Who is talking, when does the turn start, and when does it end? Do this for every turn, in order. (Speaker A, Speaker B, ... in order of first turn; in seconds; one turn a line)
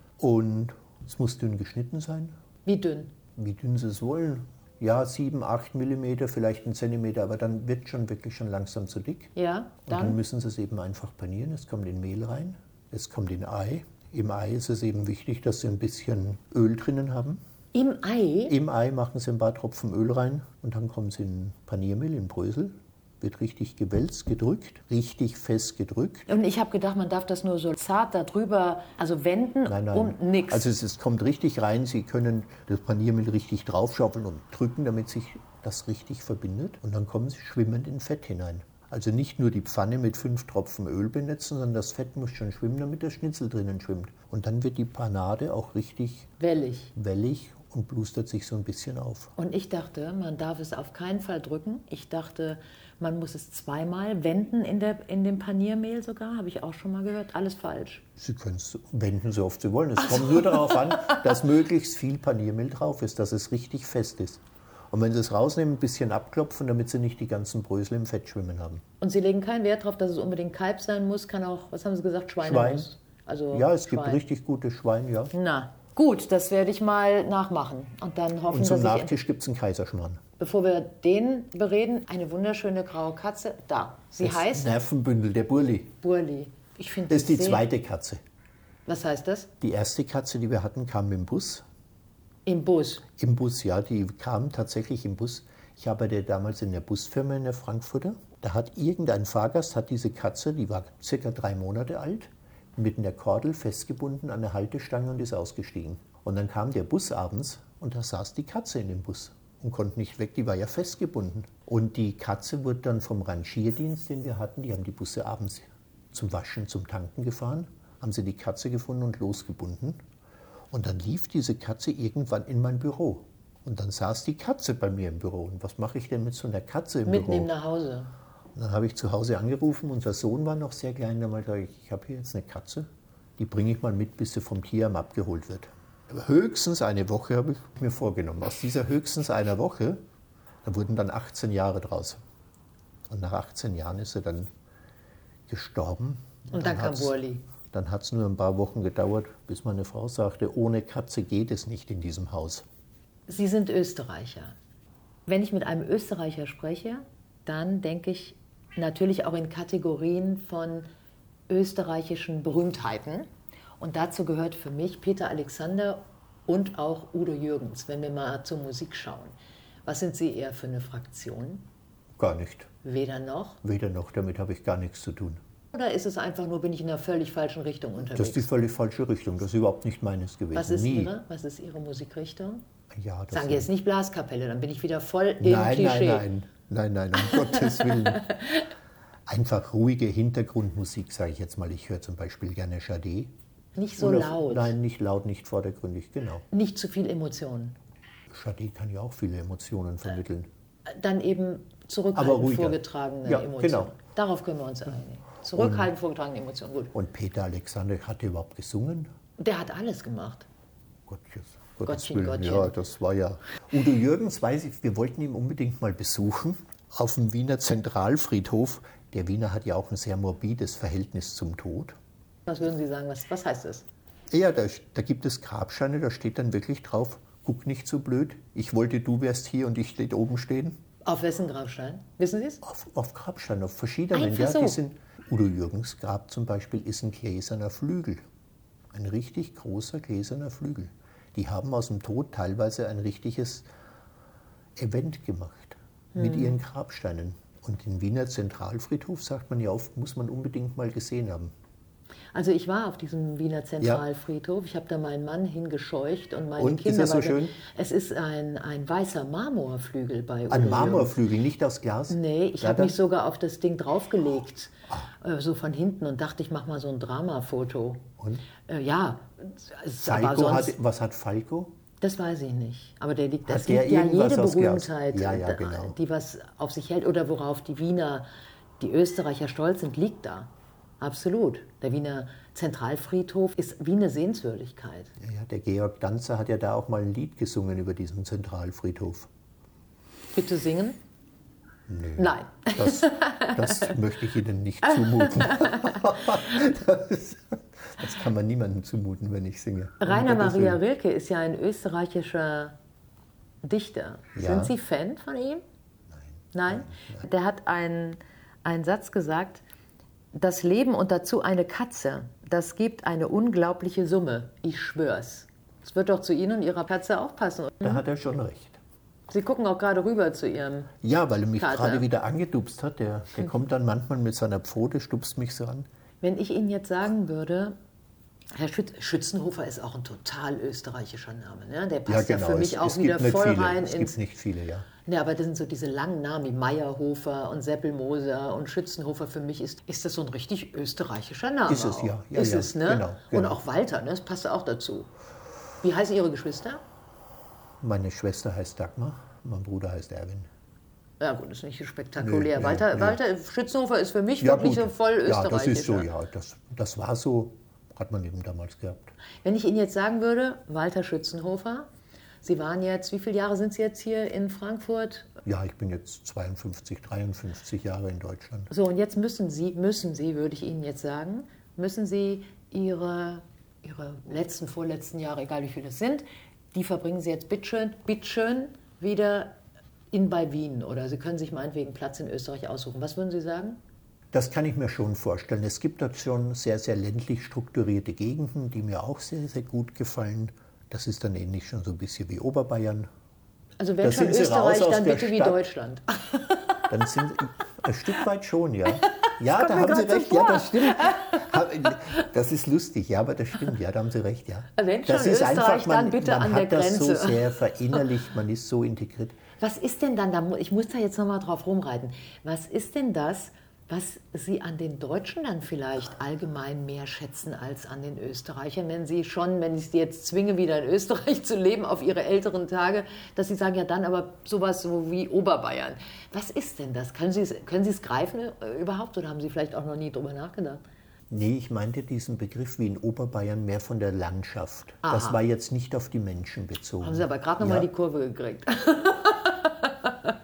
Speaker A: 0.2-2.4
Speaker B: 2.6-3.1
Speaker A: 3.4-9.3
Speaker B: 9.4-10.2
Speaker A: 9.9-17.4
Speaker B: 17.7-18.6
Speaker A: 18.5-26.3
Speaker B: 26.3-30.7
Speaker A: 29.7-46.3
Speaker B: 46.4-46.9
Speaker A: 47.0-49.3
Speaker B: 49.4-58.0
Speaker A: 58.2-68.8
Speaker B: 69.0-74.2
Speaker A: 72.4-72.9
Speaker A: 73.5-75.3
Speaker B: 75.3-79.2
Speaker A: 78.5-80.2
Speaker B: 80.4-84.7
Speaker A: 84.2-86.0
Speaker B: 86.0-87.7
Speaker A: 87.1-88.2
Speaker B: 88.9-89.5
Speaker A: 89.6-91.6
Speaker B: 92.5-93.1
Speaker A: 93.2-120.0
Speaker A: 120.7-127.5
Speaker B: 127.1-128.1
Speaker A: 128.6-140.0
Speaker A: 140.6-142.2
Speaker A: 143.1-144.5
Speaker A: 145.5-147.2
Speaker B: 146.5-147.4
Speaker A: 147.7-152.7
Speaker B: 153.3-154.6
Speaker B: 155.3-160.9
Speaker B: 161.5-163.3
Speaker B: 163.8-171.7
Speaker A: 172.2-172.7
Speaker B: 172.8-173.6
Speaker A: 173.6-175.4
Speaker B: 175.7-178.5
Speaker A: 178.0-181.1
Speaker B: 180.5-182.6
Speaker A: 182.9-183.7
Speaker B: 183.3-186.3
Speaker A: 185.4-188.3
Speaker B: 187.5-188.7
Speaker A: 189.3-193.3
Speaker B: 193.8-194.8
Speaker A: 194.0-196.5
Speaker B: 196.5-197.8
Speaker A: 198.3-200.5
Speaker B: 200.9-206.9
Speaker A: 202.2-203.9
Speaker A: 205.5-205.9
Speaker A: 206.9-209.1
Speaker B: 209.4-210.5
Speaker A: 211.1-222.0
Speaker B: 211.9-212.7
Speaker B: 222.5-223.9
Speaker A: 224.3-230.8
Speaker B: 231.1-232.6
Speaker A: 232.6-238.2
Speaker B: 234.1-234.8
Speaker A: 238.9-243.7
Speaker A: 244.8-251.5
Speaker B: 246.2-246.6
Speaker B: 252.3-261.2
Speaker A: 253.8-254.1
Speaker A: 256.6-257.6
Speaker A: 260.5-263.0
Speaker B: 262.1-268.1
Speaker A: 268.2-268.4
Speaker B: 268.6-270.8
Speaker A: 270.1-271.8
Speaker B: 272.0-278.3
Speaker A: 273.5-276.0
Speaker B: 278.8-285.1
Speaker A: 285.2-289.3
Speaker B: 290.3-291.0
Speaker A: 291.9-300.8
Speaker B: 292.2-293.9
Speaker B: 294.9-296.0
Speaker B: 300.0-302.8
Speaker B: 303.6-305.6
Speaker A: 304.4-304.7
Speaker A: 306.1-307.2
Speaker B: 306.5-309.6
Speaker B: 310.3-318.0
Speaker A: 317.8-318.8
Speaker B: 319.3-320.9
Speaker A: 321.0-325.9
Speaker B: 321.6-322.1
Speaker B: 326.2-327.8
Speaker B: 328.5-334.1
Speaker A: 332.1-334.9
Speaker B: 335.1-345.1
Speaker A: 341.7-343.6
Speaker B: 345.8-346.8
Speaker A: 347.8-350.5
Speaker B: 351.2-356.1
Speaker A: 352.2-353.2
Speaker A: 354.4-359.1
Speaker B: 359.4-361.9
Speaker B: 362.4-365.3
Speaker A: 365.4-368.7
Speaker B: 368.7-379.6
Speaker B: 380.1-383.8
Speaker A: 384.3-393.1
Speaker B: 393.8-396.6
Speaker A: 394.0-395.6
Speaker A: 396.9-409.4
Speaker B: 399.3-401.4
Speaker B: 404.8-407.5
Speaker B: 409.6-430.8
Speaker A: 431.3-437.9
Speaker B: 435.0-435.4
Speaker B: 437.0-440.3